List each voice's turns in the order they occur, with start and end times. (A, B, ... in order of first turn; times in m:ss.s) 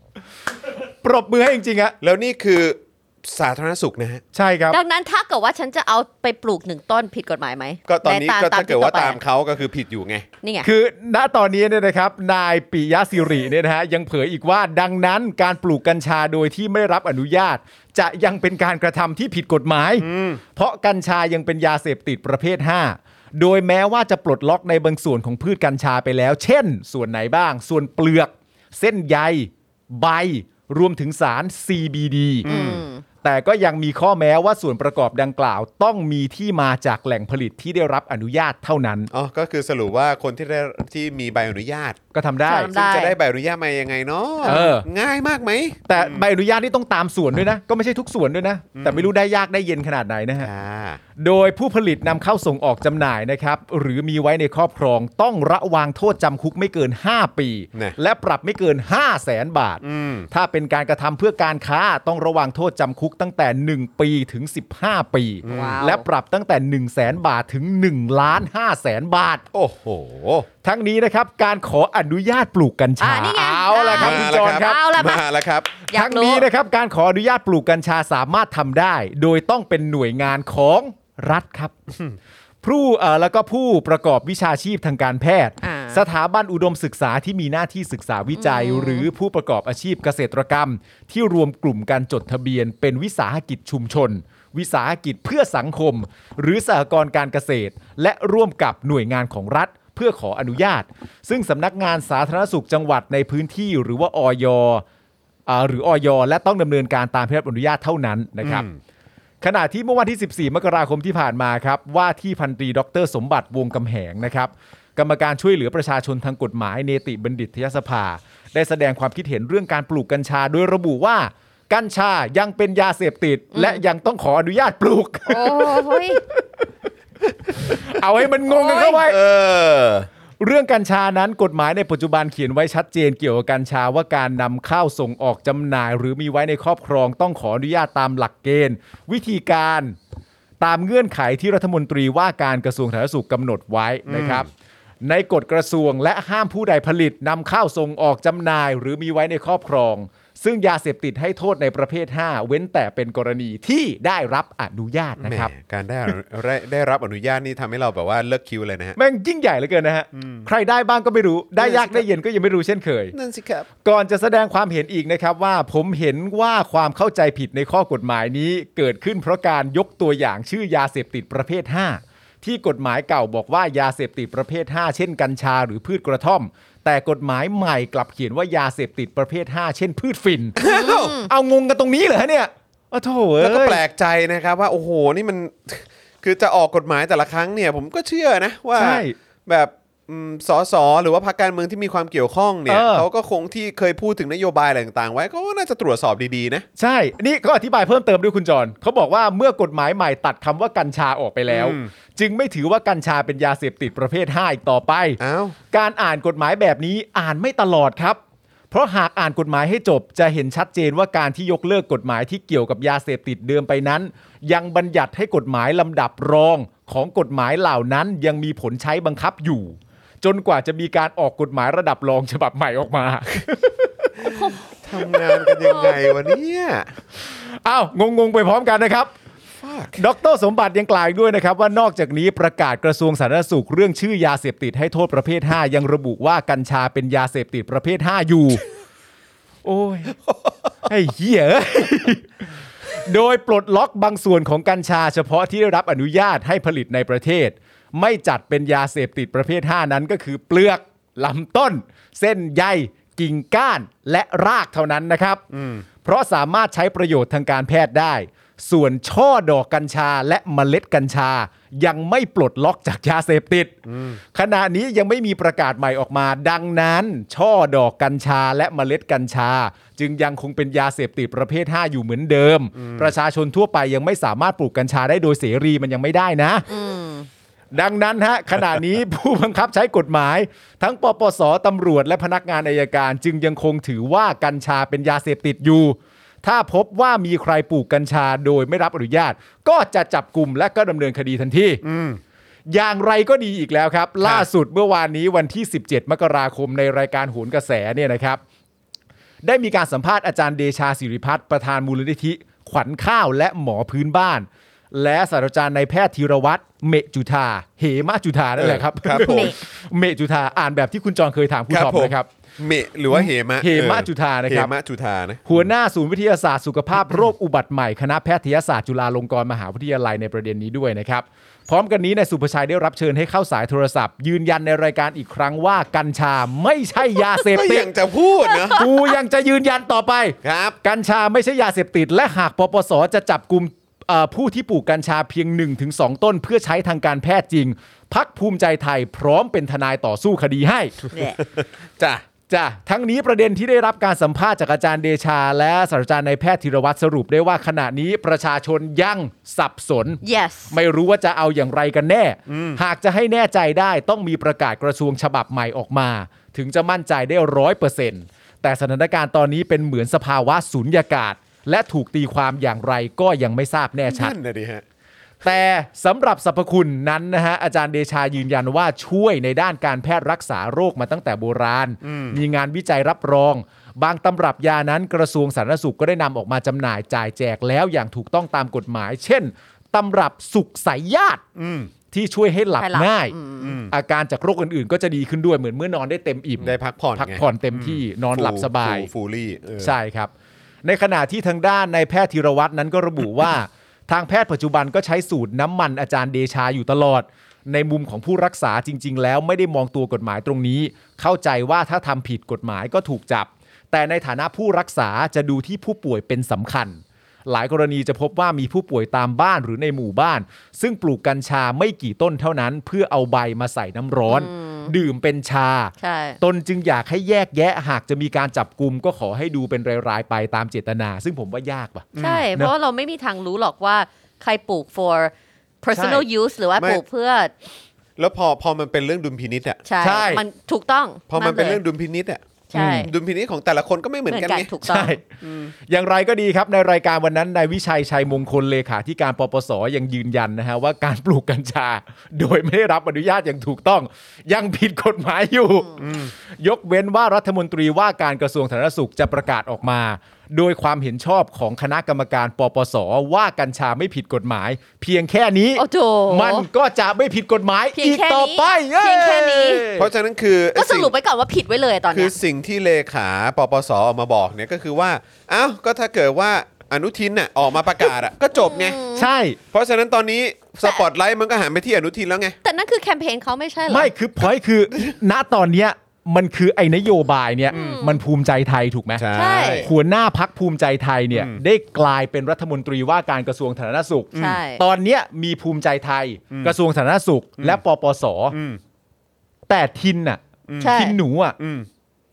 0:01.0-0:02.0 A
0:02.0-0:04.2 B
0:04.3-0:04.8 A
0:04.7-0:09.2 C
0:07.9-0:10.3 B
0:10.4-0:10.7 C
0:10.6-0:32.5 A
0:20.0-0:20.4 B
0:32.4-0:32.8 B
0:32.4-0:33.0 C
0:33.2-0:39.1 A
0:39.1-0:42.0 B
0:42.1-0:42.7 A
0:42.4-0:43.2 C
0:42.6-0:46.2 B
0:44.4-0:44.9 A
0:45.9-0:50.5 A
0:48.7-0:49.1 B
0:50.4-0:51.0 B
0:51.2-1:09.4 A
0:59.8-1:00.3 B
1:05.4-1:05.8 B
1:05.5-1:06.0 C
1:09.5-1:10.5 B
1:10.6-1:14.8 A
1:13.0-1:16.4 C
1:13.9-1:15.8 B
1:15.9-1:21.7 A
1:22.6-1:44.8 A
1:25.6-1:26.0 C
1:28.4-1:29.1 C
1:45.5-1:48.7 A
1:48.4-1:48.8 B
1:49.4-2:06.7 A
2:03.5-2:03.8 C
2:05.3-2:06.2 C
2:07.5-2:09.2 A
2:08.6-2:09.0 C
2:08.7-2:10.1 B
2:10.4-2:20.0 A
2:20.6-2:24.5 A
2:24.1-2:24.5 B
2:25.0-2:35.5 A
2:35.2-2:39.0 B
2:39.0-2:43.2 A
2:40.1-2:40.5 B
2:41.6-2:42.0 B
2:43.1-2:43.7 B
2:43.8-3:00.6 A
3:00.6-3:01.2 B
3:00.6-3:01.3 C
3:01.3-3:03.8 A
3:03.4-3:16.7 B
3:08.8-3:09.2 A
3:12.7-3:13.1 A
3:16.8-3:25.2 A
3:21.5-3:21.9 B
3:25.2-3:25.6 B
3:25.7-3:28.2 A
3:28.7-3:44.4 A
3:44.3-3:46.9 B
3:47.3-3:49.1 A
3:49.6-3:50.0 B
3:50.0-3:58.6 A
3:59.6-4:00.1 A
4:00.2-4:00.5 B
4:00.9-4:02.3 A
4:03.0-4:15.4 A
4:15.5-4:15.9 B
4:16.0-4:36.7 A
4:23.9-4:24.2 B
4:32.8-4:33.1 B
4:36.7-4:37.3 C
4:37.7-4:51.8 A
4:51.8-4:52.2 B
4:52.7-4:58.4 A
4:59.4-5:12.3 A
5:08.6-5:09.6 B
5:09.2-5:09.6 C
5:11.7-5:15.7 B
5:13.1-5:14.7 A
5:15.4-5:27.9 A
5:27.4-5:28.8 B
5:28.5-5:28.9 C
5:28.7-5:41.0 A
5:30.4-5:30.8 B
5:41.1-5:41.4 C
5:41.4-5:42.2 B
5:42.5-6:04.4 A
5:50.2-5:50.8 C
5:52.5-5:52.8 B
6:04.1-6:04.8 B
6:05.4-6:21.4 A
6:12.0-6:12.4 B
6:21.6-6:21.9 B
6:22.1-6:23.4 A
6:22.8-6:23.8 C
6:23.6-6:23.9 B
6:23.9-6:29.1 A
6:26.6-6:30.0 B
6:29.8-6:30.3 A
6:30.8-7:02.7 A
6:54.3-6:54.9 C
6:56.0-6:56.4 C
7:02.2-7:02.5 B
7:02.2-7:07.5 C
7:05.9-7:06.2 A
7:08.2-7:09.8 B
7:09.8-7:11.8 C
7:10.0-7:10.4 A
7:11.3-7:12.4 B
7:12.7-7:13.1 C
7:12.8-7:13.1 A
7:13.0-7:14.7 B
7:14.3-7:15.2 C
7:14.8-7:15.2 A
7:15.4-7:15.7 B
7:15.9-7:40.1 A
7:26.0-7:26.3 B
7:35.8-7:36.7 C
7:38.0-7:39.9 C
7:40.0-7:41.1 B
7:40.8-7:42.4 C
7:42.1-7:49.0 B
7:48.6-7:49.3 C
7:49.1-7:49.6 A
7:49.7-7:52.6 B
7:52.6-7:54.1 C
7:53.9-8:08.6 A
7:57.7-7:58.2 C
7:57.7-7:58.0 B
7:59.2-7:59.9 B
7:59.3-7:59.9 C
8:01.3-8:01.6 B
8:04.3-8:04.6 B
8:04.4-8:04.8 C
8:08.5-8:08.8 B
8:09.7-8:11.6 A
8:10.7-8:11.0 B
8:10.8-8:11.2 C
8:11.6-8:11.9 B